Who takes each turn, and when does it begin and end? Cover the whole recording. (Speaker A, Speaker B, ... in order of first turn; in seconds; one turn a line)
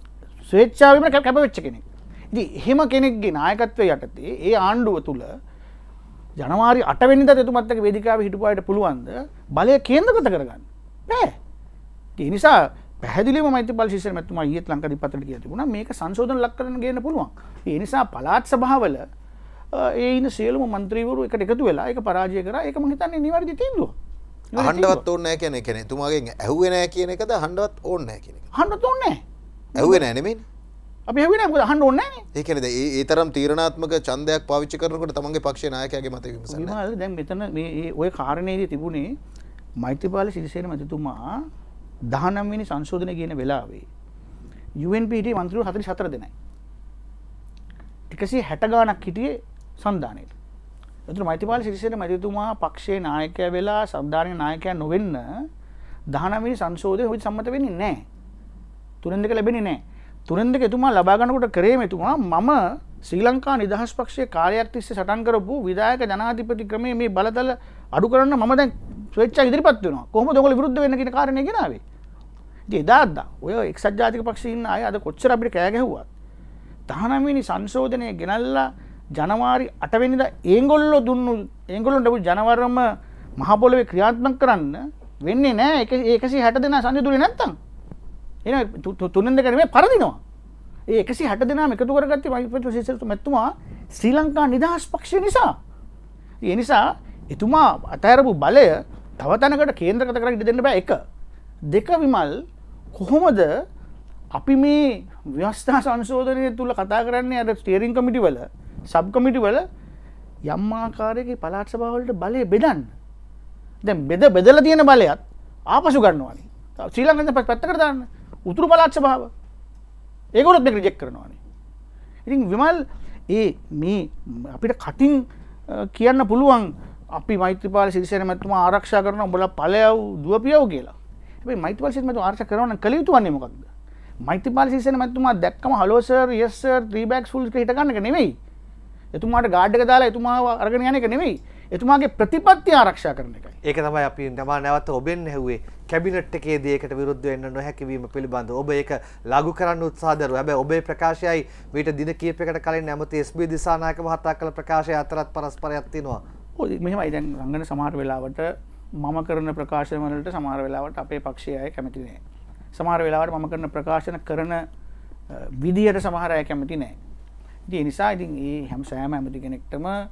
Speaker A: 0.5-5.3
Speaker A: 6.4-11.4
Speaker A: 12.2-19.0
Speaker A: 19.7-23.9
Speaker A: 24.5-25.0
Speaker B: 24.6-28.4
Speaker A: 28.5-29.2
Speaker B: 29.8-30.4
Speaker A: 31.1-32.2
Speaker B: 32.3-36.8
Speaker A: 36.5-39.1
Speaker A: 39.8-41.2
Speaker A: 42.1-43.9
Speaker A: 44.8-46.3
Speaker A: 48.1-50.3
Speaker A: 51.1-55.2
Speaker A: 56.1-58.0
Speaker A: 59.0-71.8
Speaker A: 72.7-76.1
Speaker A: 76.9-82.8
Speaker A: 83.4-87.5
Speaker A: 88.4-90.2
Speaker A: 90.9-95.5
Speaker A: 96.4-101.0
Speaker A: 101.7-102.4
Speaker A: 102.9-103.5
Speaker A: 104.3-109.6
Speaker A: 110.5-112.9
Speaker A: 113.8-119.3
Speaker A: 120.3-121.4
Speaker A: 122.2-133.7
Speaker A: 134.2-138.3
Speaker A: 139.1-143.5
Speaker C: 143.6-156.2
Speaker A: 156.6-158.5
Speaker A: 159.0-162.2
Speaker A: 162.7-164.6
Speaker A: 165.3-166.9
Speaker A: 167.7-169.9